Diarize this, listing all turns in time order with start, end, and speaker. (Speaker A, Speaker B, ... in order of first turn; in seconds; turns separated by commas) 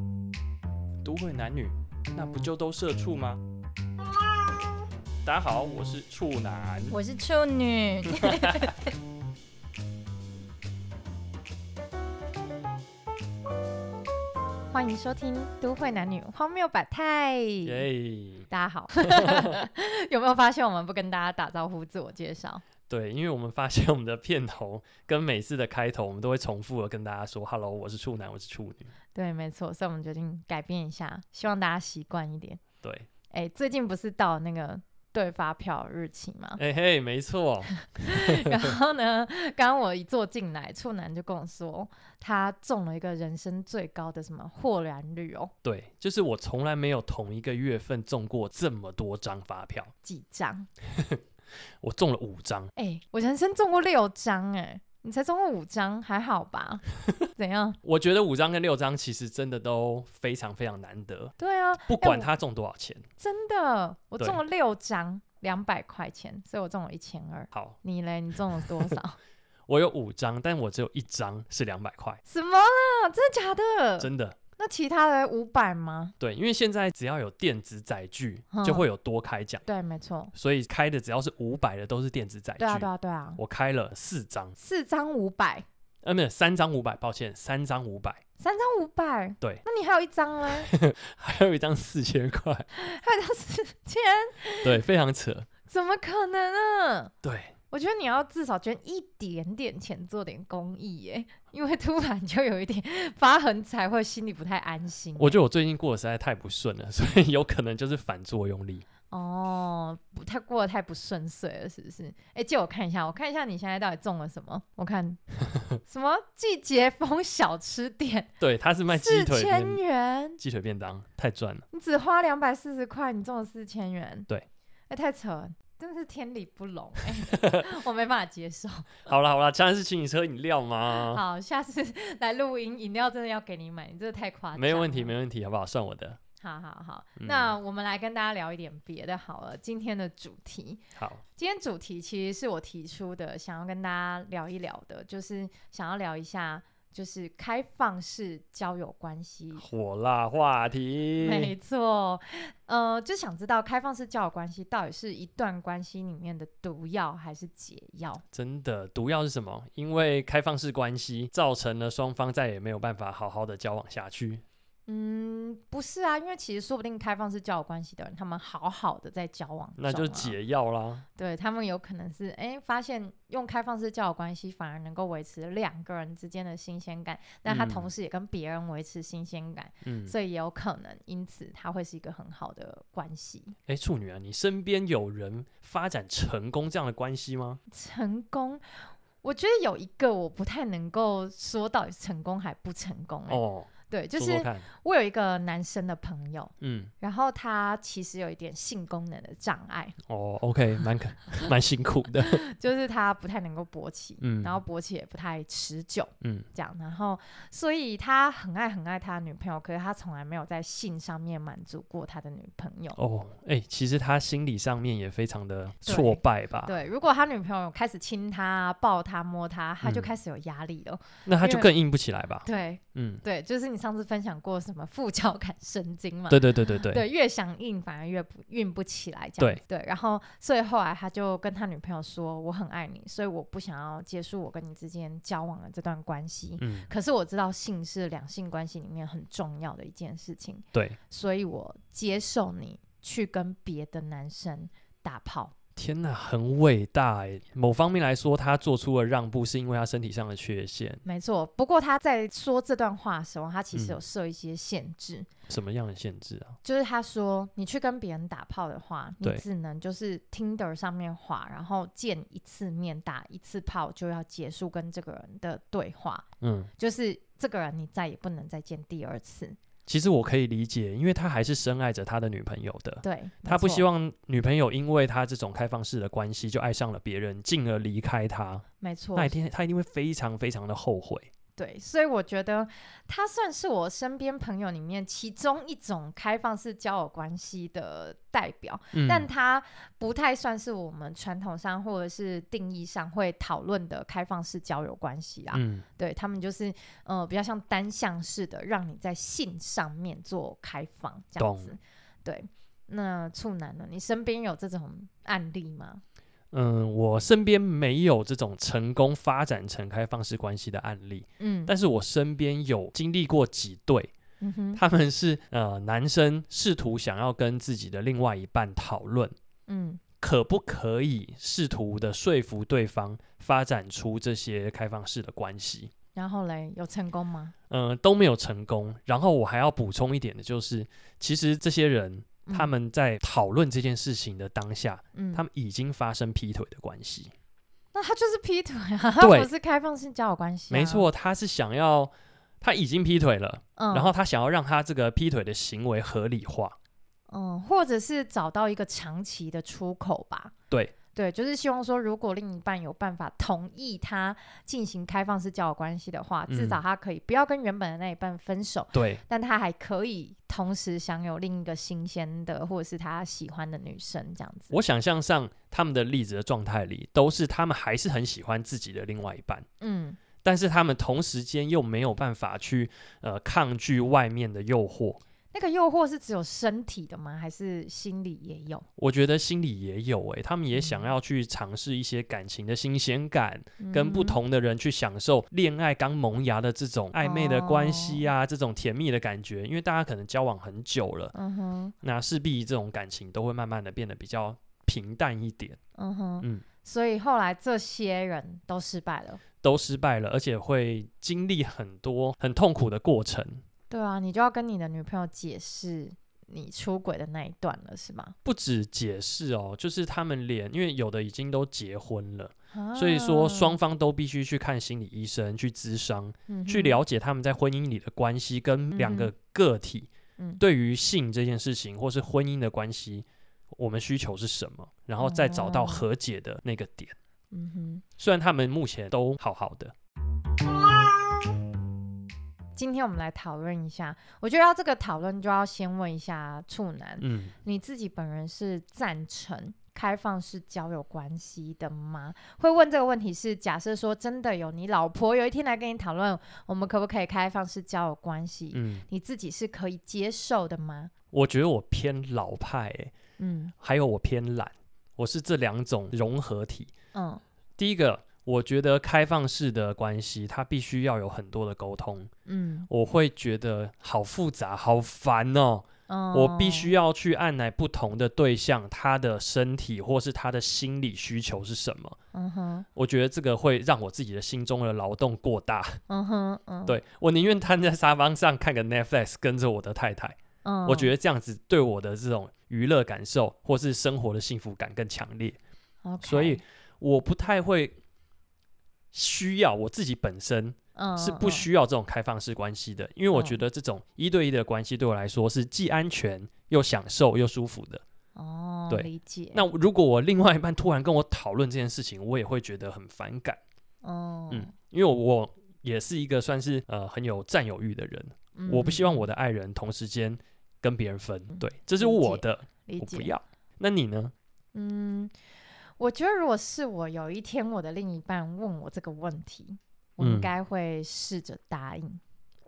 Speaker A: 1.0-3.4, Speaker A: 5.2-7.0, Speaker B: 6.9-8.8, Speaker A: 8.1-8.7, Speaker B: 14.7-17.9, Speaker A: 17.6-18.5, Speaker B: 18.5-22.6, Speaker A: 19.0-19.6, Speaker A: 22.9-28.9, Speaker B: 29.1-32.6, Speaker A: 32.8-33.1, Speaker B: 33.3-36.6, Speaker A: 36.6-38.8, Speaker B: 37.9-45.5, Speaker A: 45.6-49.9, Speaker B: 50.0-50.7, Speaker A: 50.9-51.2, Speaker A: 51.8-52.7, Speaker B: 52.8-57.8, Speaker A: 57.8-61.4, Speaker B: 61.4-62.3, Speaker A: 61.9-63.0, Speaker B: 63.2-69.2, Speaker A: 67.5-67.8, Speaker A: 68.6-68.9, Speaker A: 69.7-72.2, Speaker B: 72.2-76.1, Speaker A: 74.0-74.4, Speaker A: 76.2-79.6, Speaker B: 78.5-78.8, Speaker B: 79.7-80.3, Speaker A: 80.3-84.6, Speaker B: 82.6-83.4, Speaker B: 84.6-85.7, Speaker A: 86.0-88.2, Speaker B: 88.4-90.7, Speaker A: 90.6-92.7, Speaker B: 92.7-94.8, Speaker A: 94.6-95.5, Speaker B: 95.7-97.1, Speaker A: 97.2-97.5, Speaker B: 97.7-105.4, Speaker A: 105.2-108.8, Speaker B: 109.1-115.2, Speaker B: 115.8-118.3, Speaker A: 118.4-119.8, Speaker B: 118.9-120.4, Speaker A: 120.4-121.6, Speaker B: 121.7-124.3, Speaker B: 124.9-129.0, Speaker A: 127.3-127.7, Speaker A: 129.1-131.2, Speaker B: 130.9-135.2, Speaker A: 134.6-136.2, Speaker B: 136.4-140.8, Speaker A: 137.2-137.5, Speaker A: 141.0-141.2, Speaker B: 141.4-149.7, Speaker A: 149.6-151.5, Speaker B: 151.2-158.2, Speaker A: 158.3-164.4, Speaker B: 164.9-170.4, Speaker A: 169.8-171.1, Speaker B: 171.2-183.6, Speaker A: 177.5-177.9, Speaker A: 179.8-180.1, Speaker A: 183.7-187.6, Speaker B: 187.7-200.0, Speaker A: 193.3-194.7, Speaker A: 196.6-196.9, Speaker A: 200.1-202.4, Speaker B: 202.2-213.0, Speaker A: 204.2-204.6, Speaker A: 206.2-206.5, Speaker A: 213.0-216.7, Speaker B: 215.8-221.7, Speaker A: 221.3-223.2, Speaker B: 222.4-245.5, Speaker A: 226.3-227.0, Speaker A: 236.6-236.9, Speaker A: 245.8-251.0, Speaker B: 251.1-255.3, Speaker A: 255.5-256.6, Speaker B: 256.6-266.2, Speaker A: 266.4-266.7, Speaker B: 266.8-269.6, Speaker A: 269.9-278.6, Speaker B: 273.0-273.9, Speaker B: 278.8-279.4, Speaker A: 279.2-281.3, Speaker B: 281.6-306.0, Speaker A: 288.9-289.3, Speaker A: 295.5-295.9, Speaker A: 301.4-301.7, Speaker A: 306.5-314.1, Speaker B: 311.4-311.7, Speaker B: 314.4-314.8, Speaker A: 314.8-319.4, Speaker B: 319.7-320.0, Speaker A: 320.2-325.9, Speaker B: 326.1-327.5, Speaker A: 327.7-337.3, Speaker B: 332.4-332.7, Speaker B: 335.1-335.4, Speaker B: 337.9-341.1, Speaker A: 339.2-339.5, Speaker A: 340.7-346.8, Speaker B: 343.8-344.1, Speaker B: 347.3-350.5, Speaker B: 351.1-364.8, Speaker A: 356.5-356.8, Speaker A: 358.9-359.2, Speaker A: 364.7-369.7, Speaker B: 369.8-370.2, Speaker A: 370.4-375.2, Speaker B: 375.5-378.9, Speaker A: 379.0-391.3, Speaker B: 380.8-381.1, Speaker B: 383.8-384.4, Speaker B: 387.2-388.3, Speaker B: 391.3-391.9, Speaker A: 392.0-395.8, Speaker B: 396.0-399.4, Speaker A: 399.6-403.6, Speaker B: 403.9-408.4, Speaker A: 408.4-427.1, Speaker B: 412.7-413.8, Speaker B: 416.5-417.0, Speaker B: 418.9-419.3, Speaker B: 425.2-426.0, Speaker B: 427.5-428.0, Speaker A: 428.2-429.9, Speaker B: 432.8-451.1, Speaker A: 437.2-437.5, Speaker A: 448.7-449.1, Speaker A: 451.3-453.1, Speaker B: 453.4-453.7, Speaker A: 453.8-456.9, Speaker B: 457.1-457.4, Speaker A: 457.8-462.3, Speaker B: 462.4-462.9, Speaker A: 462.9-472.2, Speaker B: 466.1-466.9, Speaker B: 472.3-472.9, Speaker A: 472.9-476.0, Speaker B: 476.1-477.0, Speaker A: 476.9-485.6, Speaker B: 480.6-481.1, Speaker B: 486.0-486.6, Speaker A: 486.2-488.0, Speaker A: 489.1-498.0, Speaker B: 490.9-491.7, Speaker B: 493.3-493.6, Speaker B: 498.4-499.7, Speaker A: 498.9-503.6, Speaker B: 504.0-504.7, Speaker A: 504.5-514.3, Speaker B: 508.6-509.3, Speaker B: 511.5-513.3, Speaker B: 514.7-515.3, Speaker B: 516.0-522.2, Speaker A: 520.2-520.5